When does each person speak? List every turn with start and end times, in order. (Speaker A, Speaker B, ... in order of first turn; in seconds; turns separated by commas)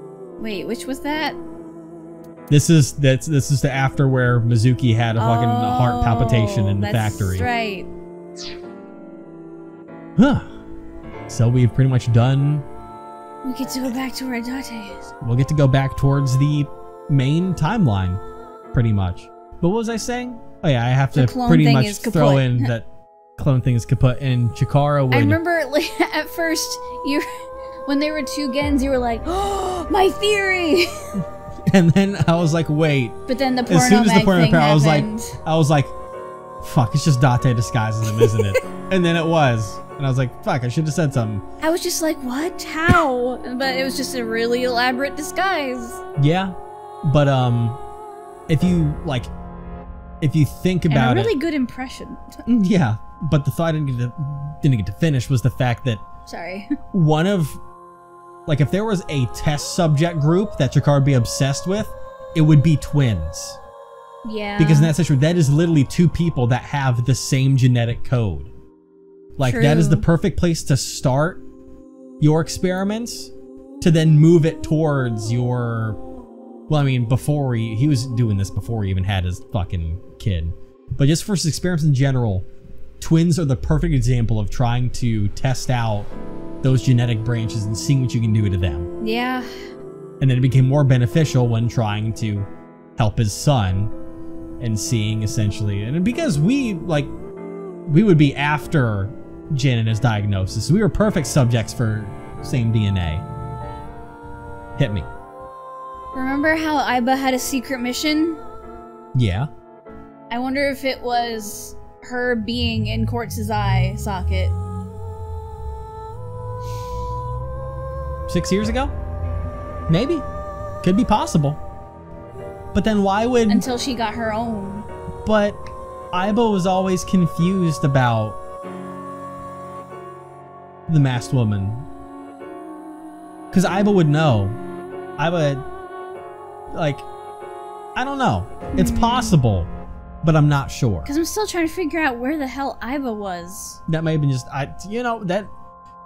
Speaker A: 0.4-1.4, Speaker B: 2.5-7.5, Speaker A: 5.2-7.9, Speaker B: 10.2-10.5, Speaker B: 11.3-12.7, Speaker A: 13.4-15.1, Speaker B: 15.2-18.2, Speaker B: 18.7-25.4, Speaker A: 21.1-22.7, Speaker A: 25.1-27.2, Speaker A: 27.9-31.1, Speaker B: 31.6-35.9, Speaker A: 33.3-35.4, Speaker B: 36.6-41.4, Speaker A: 38.1-38.5, Speaker A: 41.6-46.0, Speaker B: 46.2-47.8, Speaker B: 48.5-49.3, Speaker B: 50.2-51.3, Speaker A: 50.9-52.4, Speaker B: 52.5-56.0, Speaker A: 56.2-56.7, Speaker B: 56.9-57.6, Speaker B: 58.5-63.6, Speaker A: 64.2-64.9, Speaker B: 64.6-68.5, Speaker B: 69.4-71.4, Speaker A: 69.4-70.0, Speaker B: 72.2-76.0, Speaker B: 76.7-82.5, Speaker B: 83.0-86.1, Speaker B: 86.6-88.9, Speaker A: 89.0-89.5, Speaker B: 90.2-93.9, Speaker B: 94.6-97.1, Speaker B: 97.8-103.2, Speaker B: 104.8-105.1, Speaker A: 106.1-108.4, Speaker B: 109.1-109.5, Speaker A: 110.3-114.5, Speaker B: 118.3-118.9, Speaker B: 119.9-120.2, Speaker B: 120.8-121.6, Speaker B: 122.7-123.7, Speaker A: 123.5-124.8, Speaker B: 125.2-125.6, Speaker B: 126.1-128.4, Speaker B: 130.9-131.8, Speaker B: 133.5-134.6, Speaker B: 135.2-135.6, Speaker B: 136.7-137.1, Speaker B: 137.9-139.7, Speaker A: 138.7-139.4, Speaker B: 140.2-141.1, Speaker A: 141.0-143.8, Speaker B: 143.9-145.5